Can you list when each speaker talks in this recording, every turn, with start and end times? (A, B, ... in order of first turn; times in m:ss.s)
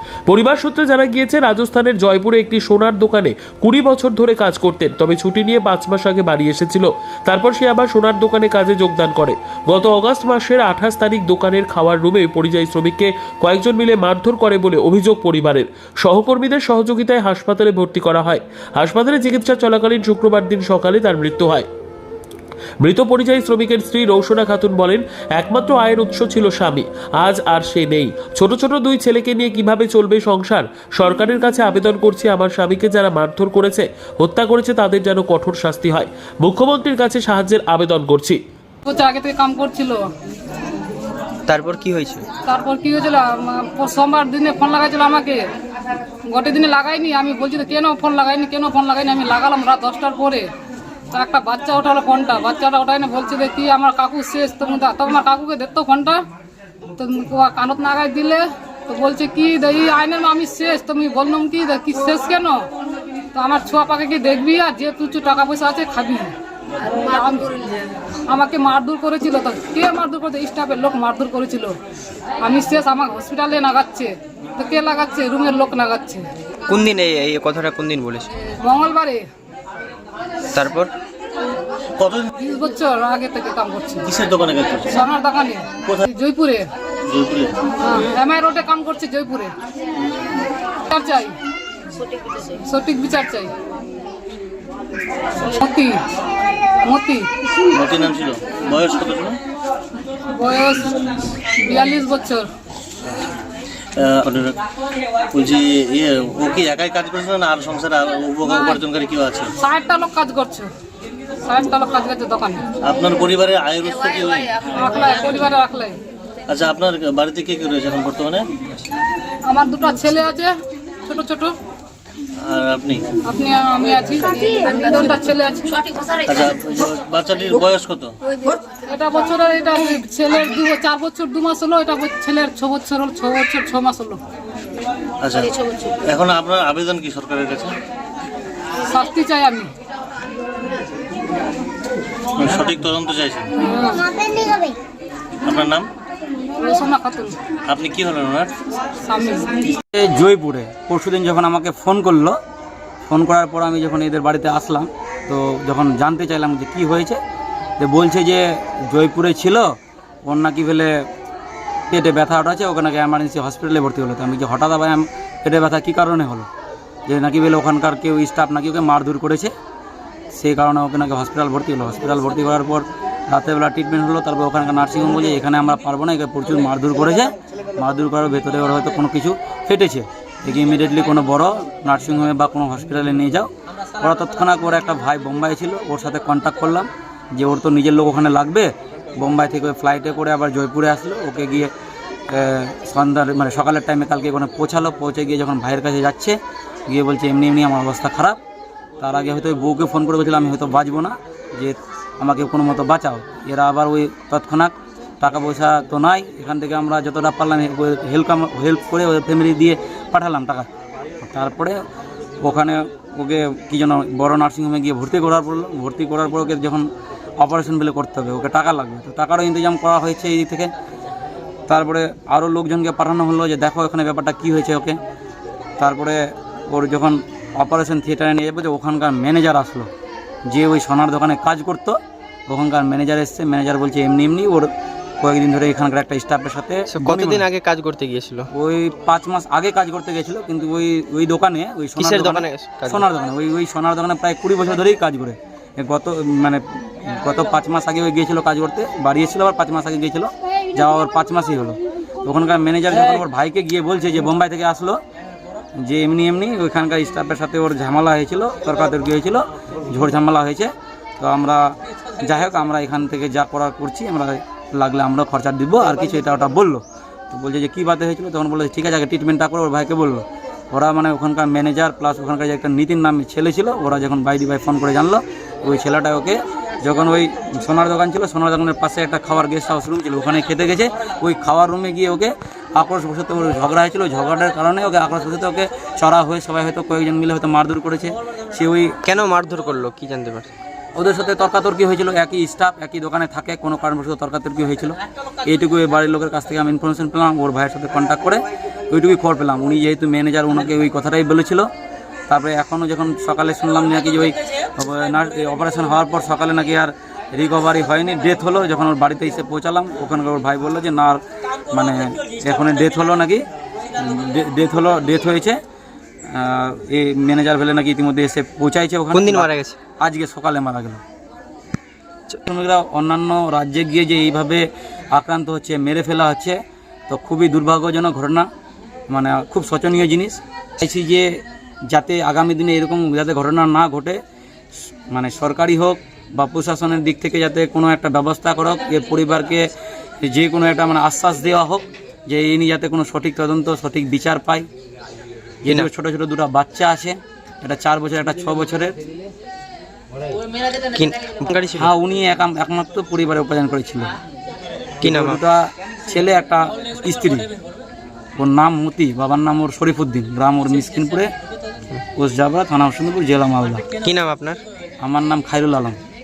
0:00.3-0:21.7 A
0:22.8-0:38.4 A
0:38.8-0:40.1 B
0:41.5-0:42.2 C
0:42.5-0:45.4 B
0:46.3-0:50.5 B
0:51.1-0:56.2 B
0:57.0-1:02.6 B
1:03.3-1:06.3 B
1:06.9-1:11.8 B
1:12.4-1:16.3 B
1:16.7-1:18.3 C
1:18.6-1:19.3 B
1:20.5-1:20.9 C
1:22.0-1:22.3 D
1:22.4-1:24.0 B
1:24.0-1:25.0 D
1:24.9-1:26.7 B
1:27.0-1:27.6 D
1:27.8-1:29.5 B
1:30.9-1:31.4 B
1:32.6-1:33.5 B
1:35.5-1:36.0 B
1:36.8-1:37.3 B
1:37.7-1:39.4 D
1:40.3-1:41.0 B
1:41.6-1:42.5 B
1:44.0-1:44.6 D
1:45.3-1:49.5 D
1:49.6-1:50.7 B
1:51.4-1:52.6 B
1:52.8-1:55.4 D
1:54.8-1:56.0 B
1:56.5-1:58.5 D
1:59.5-2:00.5 B
2:01.0-2:01.5 B
2:02.4-2:03.0 D
2:03.3-2:06.1 B
2:06.3-2:08.2 D
2:08.8-2:14.2 B
2:15.2-2:17.8 D
2:18.8-2:19.7 B
2:22.4-2:23.7 D
2:23.6-2:24.6 B
2:25.4-2:25.9 D
2:26.6-2:27.4 B
2:27.7-2:28.5 D
2:29.0-2:29.6 B
2:29.7-2:32.4 E
2:33.1-2:37.2 E
2:37.8-2:39.7 E
2:40.2-2:40.9 E
2:41.9-2:46.5 E
2:47.1-2:49.5 E
2:50.3-3:11.7 E
3:12.3-3:18.4 E
3:19.0-3:30.7 E
3:31.2-3:31.8 E
3:32.4-3:36.9 E
3:37.4-3:40.7 E
3:41.7-3:45.0 E
3:45.8-3:49.9 E
3:50.5-3:52.0 E
3:52.5-3:57.4 E
3:56.9-3:58.5 C
3:58.5-4:15.0 E
4:02.0-4:03.0 C
4:15.8-4:48.9 E
4:49.0-4:50.5 C
4:50.9-5:01.7 E
5:02.3-5:15.6 E
5:16.3-5:21.0 E
5:19.1-5:19.8 C
5:22.4-5:28.5 E
5:29.1-5:34.2 E
5:35.1-5:39.7 E
5:40.2-5:44.6 E
5:45.6-5:49.0 E
5:50.9-5:51.9 C
5:51.7-5:54.1 E
5:55.0-5:55.4 C
5:55.0-5:57.5 E
5:58.4-6:01.3 E
6:02.2-6:03.8 E
6:04.0-6:04.6 C
6:05.0-6:06.0 E